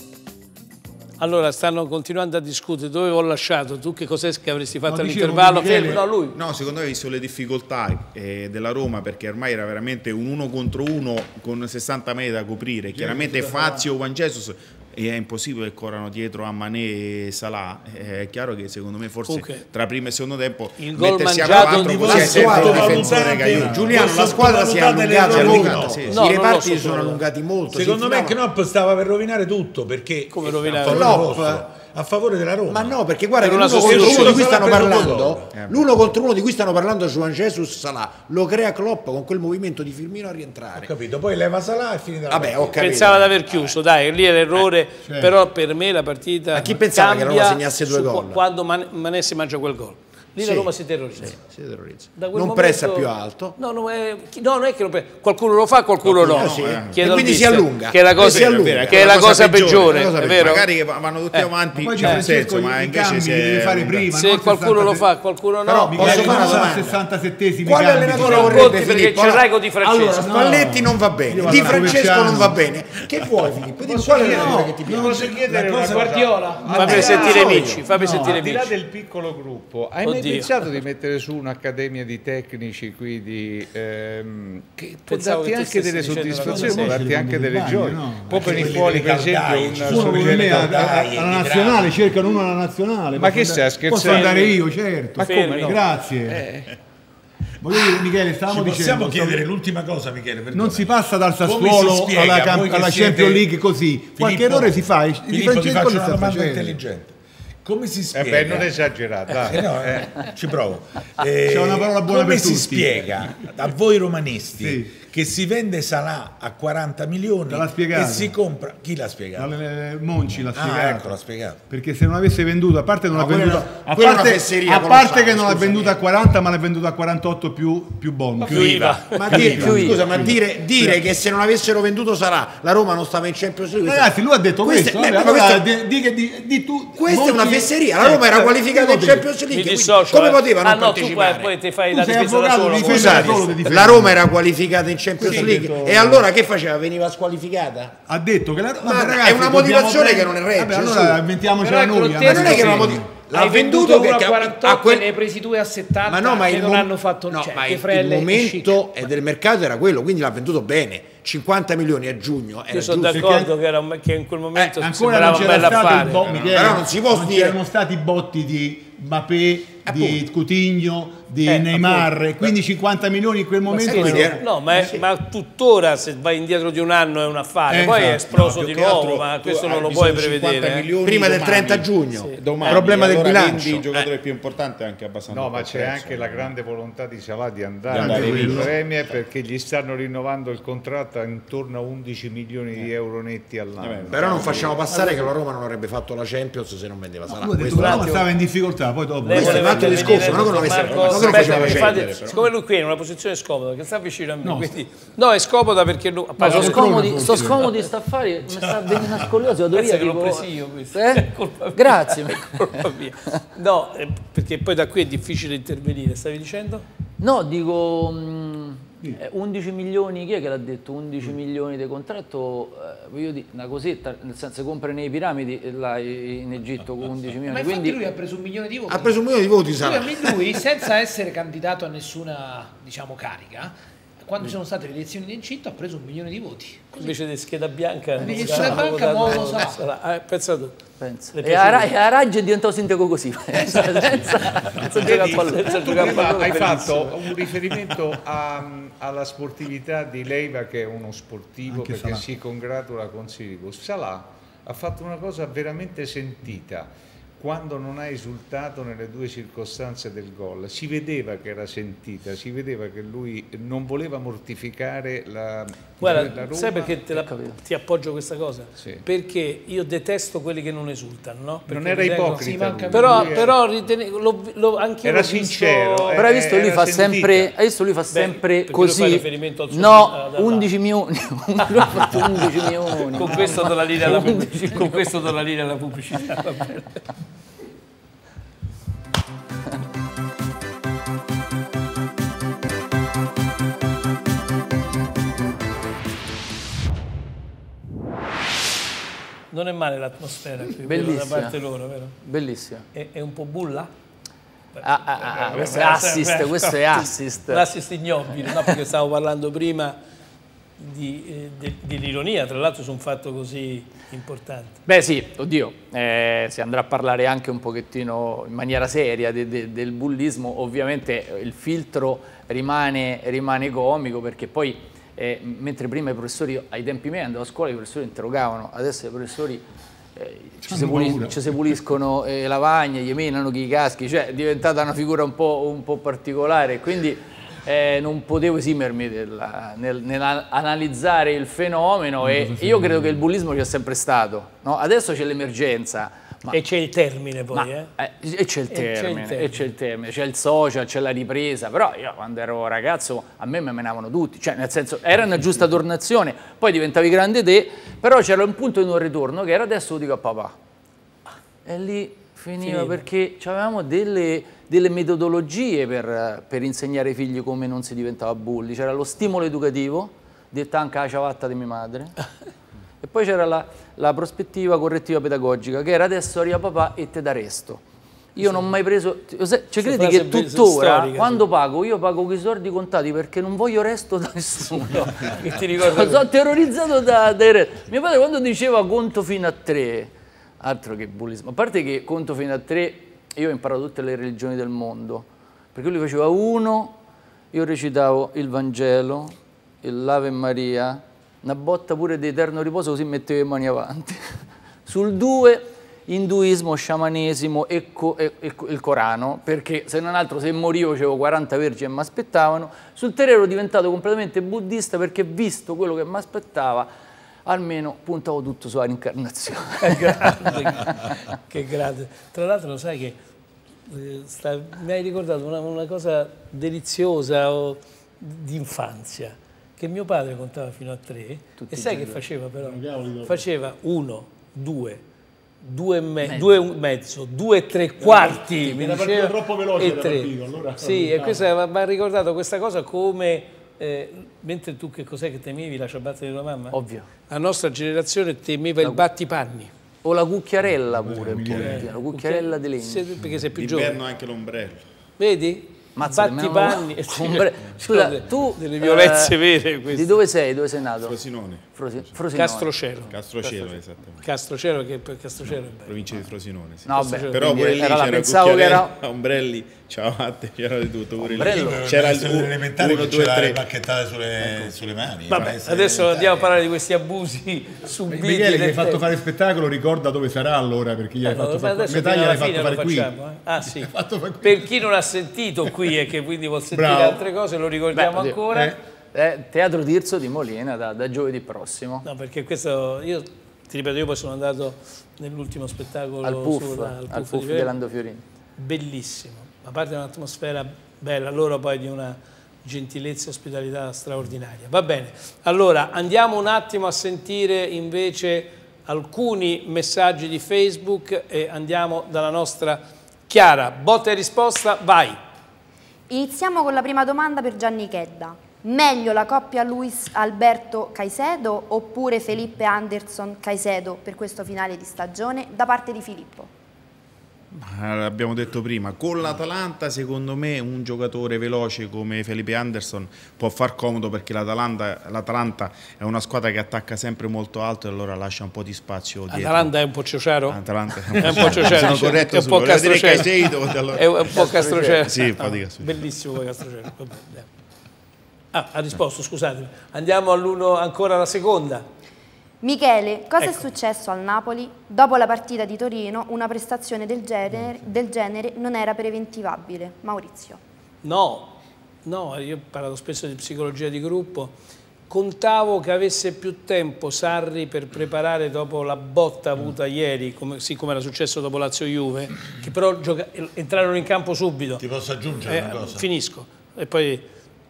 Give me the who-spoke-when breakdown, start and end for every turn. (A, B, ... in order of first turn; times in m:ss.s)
0:01.2-0:06.4 A
0:04.9-0:06.1 B
0:06.3-0:24.4 C
0:12.9-0:13.9 B
0:19.3-0:19.6 A
0:20.8-0:22.9 A
0:21.5-0:28.4 D
0:21.7-0:26.2 E
0:23.6-0:23.9 B
0:25.2-0:26.3 C
0:26.1-0:27.2 A
0:27.7-0:33.0 E
0:30.3-0:31.2 A
0:30.7-0:31.7 D
0:32.7-0:40.9 D
0:33.4-0:34.5 A
0:33.8-0:35.5 E
0:34.5-0:35.0 C
0:35.5-0:35.9 C
0:40.8-0:43.1 E
0:42.3-0:43.8 D
0:42.8-0:51.4 A
0:45.0-0:45.4 B
0:46.5-0:48.4 D
0:50.4-0:53.6 D
0:52.2-1:00.6 A
0:56.0-0:57.4 C
0:56.2-1:00.6 D
0:58.0-1:04.2 C
1:01.3-1:02.3 A
1:01.7-1:05.1 B
1:04.2-1:06.7 A
1:05.6-1:07.0 D
1:05.8-1:08.8 B
1:07.6-1:15.3 D
1:08.1-1:10.2 A
1:10.2-1:12.7 B
1:13.9-1:30.9 F
1:14.2-1:15.2 B
1:14.9-1:16.3 E
1:15.8-1:16.9 G
1:16.7-1:18.7 A
1:16.8-1:17.8 D
1:17.9-1:18.4 B
1:20.0-1:20.5 A
1:25.1-1:27.0 A
1:26.2-1:28.9 B
1:28.3-1:32.1 E
1:29.8-1:36.5 B
1:33.1-1:34.6 F
1:34.0-1:34.5 A
1:35.2-1:36.5 F
1:35.2-1:35.8 A
1:37.6-1:39.5 B
1:38.4-1:43.5 E
1:40.5-1:46.8 B
1:44.2-1:48.7 E
1:48.1-1:50.2 F
1:49.4-1:59.6 E
1:51.4-1:53.2 B
1:54.6-1:54.9 B
1:57.5-1:58.4 B
1:59.4-2:01.2 B
2:00.3-2:01.6 E
2:01.7-2:11.1 B
2:03.1-2:06.0 D
2:08.4-2:09.6 A
2:08.4-2:15.7 D
2:09.4-2:10.0 H
2:13.8-2:19.3 B
2:16.9-2:21.5 D
2:19.5-2:23.6 A
2:21.9-2:24.2 B
2:22.8-2:28.0 D
2:25.2-2:26.3 B
2:25.2-2:26.0 A
2:28.1-2:33.2 B
2:28.8-2:31.2 D
2:31.5-2:38.9 G
2:32.2-2:35.1 D
2:36.0-2:43.2 D
2:42.7-2:46.2 A
2:43.1-2:43.5 B
2:44.6-2:45.5 D
2:44.8-2:54.4 B
2:45.6-2:46.8 C
2:46.0-2:47.6 D
2:49.8-2:50.2 D
2:51.4-2:52.1 A
2:53.7-3:00.9 A
2:53.8-2:55.0 D
2:57.7-2:58.4 B
2:58.3-3:06.5 C
3:01.0-3:04.1 D
3:05.3-3:14.7 F
3:07.9-3:08.8 C
3:07.9-3:08.8 B
3:13.8-3:14.9 C
3:14.1-3:18.3 D
3:17.3-3:20.9 B
3:17.6-3:18.3 A
3:19.2-3:27.7 A
3:19.3-3:22.4 D
3:20.6-3:22.4 C
3:24.4-3:24.8 B
3:26.4-3:32.9 H
3:26.4-3:27.9 B
3:29.7-3:36.8 A
3:37.2-3:48.0 H
3:47.5-3:57.2 G
3:48.9-3:50.6 D
3:57.0-4:00.8 A
3:58.2-3:59.8 G
4:01.0-4:07.1 H
4:01.3-4:01.9 A
4:03.7-4:07.2 A
4:05.0-4:27.0 F
4:11.7-4:12.2 B
4:26.0-4:36.2 A
4:27.1-4:27.6 H
4:31.7-4:33.5 F
4:32.3-4:33.5 G
4:35.0-4:37.6 F
4:36.2-4:45.1 H
4:38.1-4:40.7 A
4:41.7-4:42.3 A
4:43.1-4:46.9 A
4:59.5-5:02.2 A
5:00.8-5:01.6 H
5:02.2-5:02.9 H
5:02.9-5:03.9 A
5:04.8-5:10.0 A
5:04.8-5:07.7 H
5:08.5-5:08.7 H
5:10.8-5:14.8 A
5:14.9-5:29.6 H
5:30.2-5:46.6 H
5:30.6-5:31.4 B
5:42.2-5:43.2 B
5:46.5-5:47.9 A
5:47.5-6:00.6 H
5:48.7-5:49.5 A
6:01.6-6:12.2 H
6:02.6-6:03.0 A
6:13.0-6:17.8 H
6:18.4-6:37.0 H
6:18.4-6:18.8 A
6:19.8-6:21.5 A
6:25.2-6:26.2 A
6:37.5-6:56.9 H
6:57.5-7:01.2 H
6:59.8-7:03.2 A
7:03.9-7:15.0 A
7:11.6-7:12.2 H
7:12.6-7:13.4 B
7:15.6-7:29.7 A
7:16.2-7:16.6 H
7:18.1-7:18.7 H
7:18.2-7:21.5 B
7:26.7-7:27.1 H
7:28.8-7:29.1 H
7:30.0-7:33.2 H
7:31.0-7:32.0 B
7:31.6-7:34.0 A
7:33.5-7:34.8 C
7:35.2-7:40.2 A
7:36.0-7:41.2 H
7:41.0-7:41.7 C
7:41.7-7:42.8 H
7:42.3-7:46.2 A
7:43.1-7:44.2 C
7:45.9-7:53.6 C
7:46.9-7:49.0 H
7:47.0-7:47.4 A
7:51.2-7:51.8 H
7:51.3-7:56.4 E
7:55.3-7:59.0 A
7:58.1-8:03.1 B
8:01.2-8:08.8 A
8:03.7-8:04.8 B
8:06.7-8:07.2 B
8:07.9-8:08.4 H
8:08.5-8:08.8 B
8:09.1-8:12.1 H
8:12.0-8:17.7 A
8:16.2-8:18.2 H
8:18.6-8:35.2 A
8:36.1-8:46.5 I
8:47.5-8:59.7 C
8:59.3-9:07.5 A
9:00.5-9:05.9 C
9:04.5-9:04.9 H
9:08.5-9:11.9 A
9:12.6-9:20.6 I
9:21.0-9:24.5 A
9:25.1-9:34.8 A
9:34.8-9:36.1 E
9:35.4-9:37.3 A